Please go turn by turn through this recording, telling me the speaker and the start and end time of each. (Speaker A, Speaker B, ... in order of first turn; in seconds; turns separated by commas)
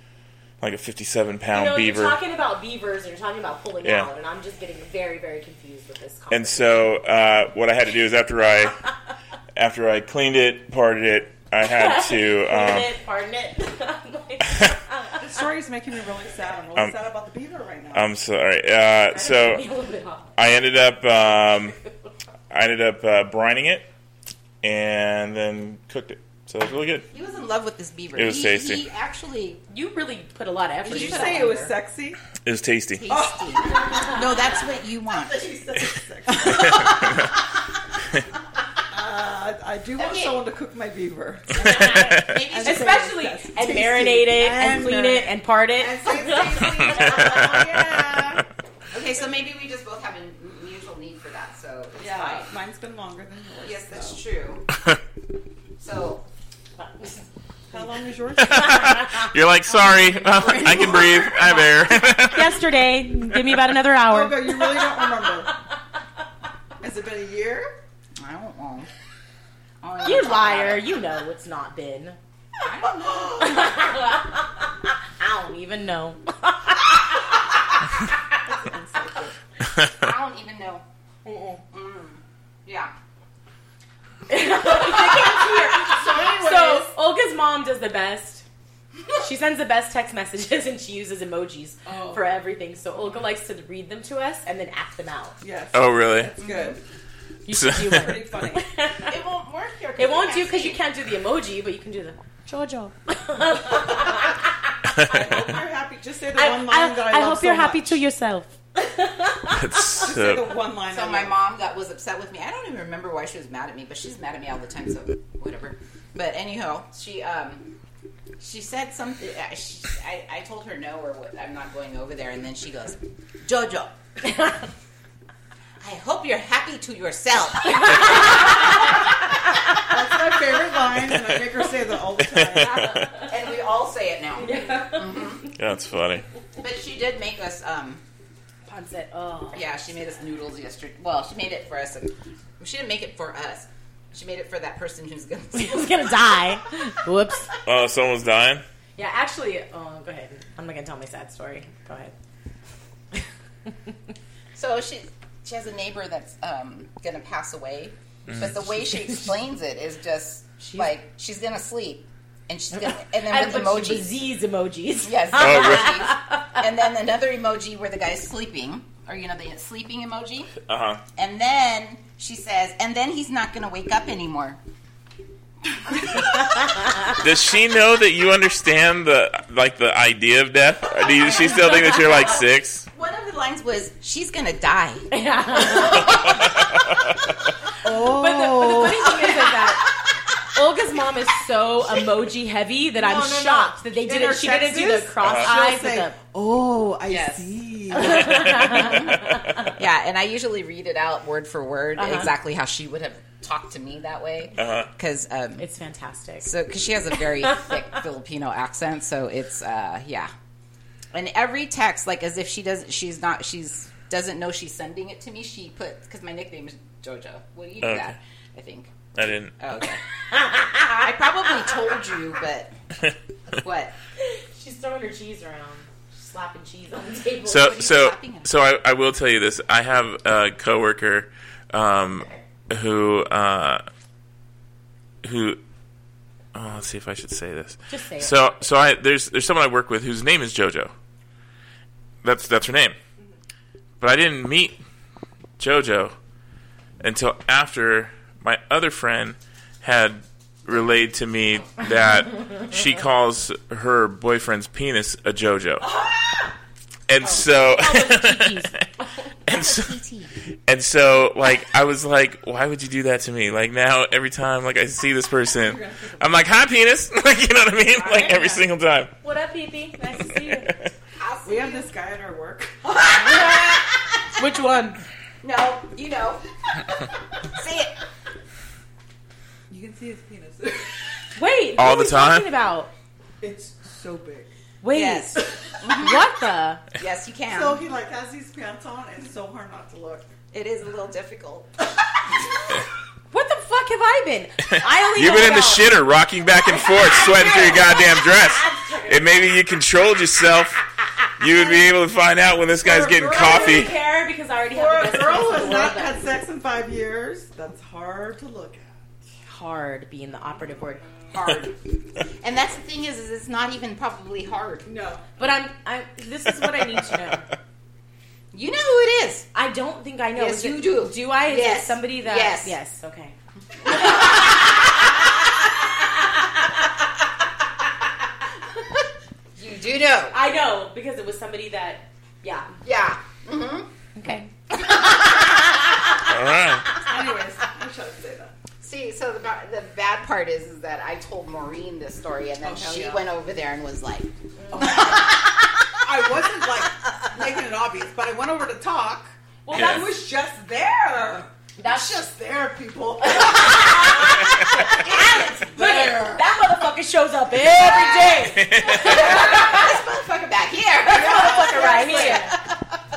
Speaker A: 0.6-2.2, Speaker B: 1.5-6.7, Speaker A: 3.8-4.1, Speaker A: 6.3-8.8, Speaker A: 9.6-12.9, Speaker B: 11.6-15.2, Speaker C: 15.2-18.1, Speaker A: 17.9-19.6, Speaker B: 19.1-20.4, Speaker A: 20.4-21.8, Speaker A: 22.5-23.9, Speaker A: 24.6-27.1, Speaker D: 27.1-29.6, Speaker A: 28.1-28.8, Speaker B: 29.7-31.8, Speaker C: 30.9-32.2, Speaker D: 30.9-31.6, Speaker A: 32.4-33.1, Speaker D: 33.0-35.4, Speaker C: 33.1-34.6, Speaker C: 35.1-37.3, Speaker A: 36.4-37.2, Speaker C: 38.9-48.5, Speaker D: 40.0-40.4, Speaker B: 41.5-47.5, Speaker A: 41.6-42.4, Speaker D: 42.0-43.1, Speaker A: 46.8-47.8, Speaker D: 48.9-52.5, Speaker C: 52.0-54.2, Speaker D: 53.6-54.7, Speaker D: 55.8-56.2, Speaker C: 57.7-59.0, Speaker A: 58.4-62.6, Speaker B: 58.7-59.3, Speaker D: 60.2-61.9, Speaker B: 62.3-65.5, Speaker C: 64.1-65.5, Speaker C: 66.8-67.7, Speaker D: 68.2-68.9, Speaker D: 69.8-71.0, Speaker B: 70.0-72.2, Speaker D: 72.6-73.6, Speaker C: 72.8-73.6, Speaker B: 73.4-77.3, Speaker C: 78.4-79.3, Speaker D: 79.8-80.8, Speaker B: 81.2-81.6, Speaker D: 81.7-82.9, Speaker B: 84.3-88.5, Speaker D: 84.7-86.9, Speaker C: 85.9-86.8, Speaker B: 89.1-95.4, Speaker C: 91.9-92.2, Speaker C: 95.4-96.8, Speaker A: 95.7-96.3, Speaker D: 96.4-96.7, Speaker B: 97.5-99.2, Speaker A: 97.5-98.2, Speaker C: 97.9-98.7, Speaker D: 99.0-100.8, Speaker B: 100.0-104.4, Speaker A: 105.0-105.3, Speaker C: 105.0-108.0, Speaker B: 106.3-110.0, Speaker A: 109.5-110.6, Speaker C: 109.9-111.4, Speaker D: 110.9-117.7, Speaker D: 118.4-124.0, Speaker D: 125.8-128.9, Speaker B: 127.7-128.7, Speaker C: 129.9-132.9, Speaker A: 132.3-133.1, Speaker D: 133.2-135.5, Speaker B: 134.4-135.2, Speaker A: 135.6-136.3, Speaker D: 136.6-138.0, Speaker B: 138.7-139.7, Speaker D: 139.5-146.4, Speaker B: 145.5-147.5, Speaker A: 147.7-148.6, Speaker B: 149.0-152.1, Speaker D: 154.6-164.1, Speaker B: 160.6-160.9, Speaker B: 162.8-166.6, Speaker D: 165.0-170.6, Speaker A: 165.4-166.0, Speaker A: 170.7-171.0, Speaker D: 171.2-174.6, Speaker D: 175.9-176.8, Speaker A: 177.2-182.9, Speaker B: 181.2-182.3, Speaker D: 181.4-186.7, Speaker B: 185.1-186.4, Speaker C: 187.8-189.2, Speaker B: 188.0-189.9, Speaker B: 190.5-196.2, Speaker C: 192.9-198.9, Speaker A: 195.2-195.5, Speaker D: 197.1-197.5, Speaker B: 197.9-199.4, Speaker D: 198.5-205.6, Speaker B: 202.0-202.3, Speaker A: 204.6-204.9, Speaker B: 205.6-206.5, Speaker D: 206.4-210.3, Speaker D: 211.1-222.7, Speaker A: 217.8-218.2, Speaker A: 219.2-219.6, Speaker B: 220.4-220.8, Speaker D: 223.5-223.9, Speaker B: 224.2-227.8, Speaker A: 227.5-233.8, Speaker D: 227.5-228.5, Speaker A: 235.2-235.6, Speaker A: 236.5-240.9, Speaker B: 237.9-238.5, Speaker A: 242.2-243.0, Speaker A: 244.0-244.8, Speaker A: 245.6-246.2, Speaker A: 247.0-255.9, Speaker C: 255.8-256.5, Speaker A: 257.1-258.9, Speaker B: 257.2-258.8, Speaker A: 259.5-260.0, Speaker D: 259.5-260.3, Speaker A: 260.7-269.1, Speaker C: 265.6-266.4, Speaker B: 268.0-268.6, Speaker D: 268.1-268.5, Speaker B: 269.2-270.8, Speaker A: 270.3-270.9, Speaker D: 271.2-271.9, Speaker C: 271.4-273.6, Speaker B: 273.2-273.8, Speaker D: 273.2-273.9, Speaker B: 274.4-275.0, Speaker D: 275.4-278.0, Speaker C: 279.7-281.1, Speaker B: 281.4-282.9, Speaker A: 281.8-282.5, Speaker C: 283.4-284.5, Speaker B: 284.8-286.8, Speaker D: 284.9-286.3, Speaker D: 286.9-287.8, Speaker C: 287.5-290.3, Speaker D: 290.5-291.7, Speaker B: 293.3-295.9, Speaker A: 294.8-300.8, Speaker B: 296.7-299.4, Speaker A: 301.4-303.9, Speaker C: 302.8-303.9, Speaker B: 303.3-306.2, Speaker C: 304.7-308.9, Speaker B: 309.5-311.0, Speaker D: 311.3-314.9, Speaker C: 314.9-315.3, Speaker B: 315.4-317.5, Speaker A: 316.8-317.3, Speaker D: 318.5-319.5, Speaker B: 319.5-323.4, Speaker D: 320.4-322.8, Speaker D: 323.8-324.8, Speaker D: 329.6-330.4, Speaker B: 330.3-332.7, Speaker D: 332.8-333.9, Speaker B: 334.2-334.5, Speaker D: 334.7-335.8, Speaker A: 336.2-336.9, Speaker C: 337.0-338.5, Speaker D: 338.8-345.9, Speaker C: 342.6-343.2, Speaker C: 344.7-345.4, Speaker C: 346.0-356.5, Speaker B: 349.6-350.2, Speaker A: 349.7-350.1, Speaker B: 351.8-352.2, Speaker B: 353.3-359.8, Speaker D: 354.9-355.6, Speaker D: 357.6-362.8, Speaker A: 358.4-359.3, Speaker C: 359.0-360.0, Speaker B: 361.0-362.6, Speaker C: 361.1-362.5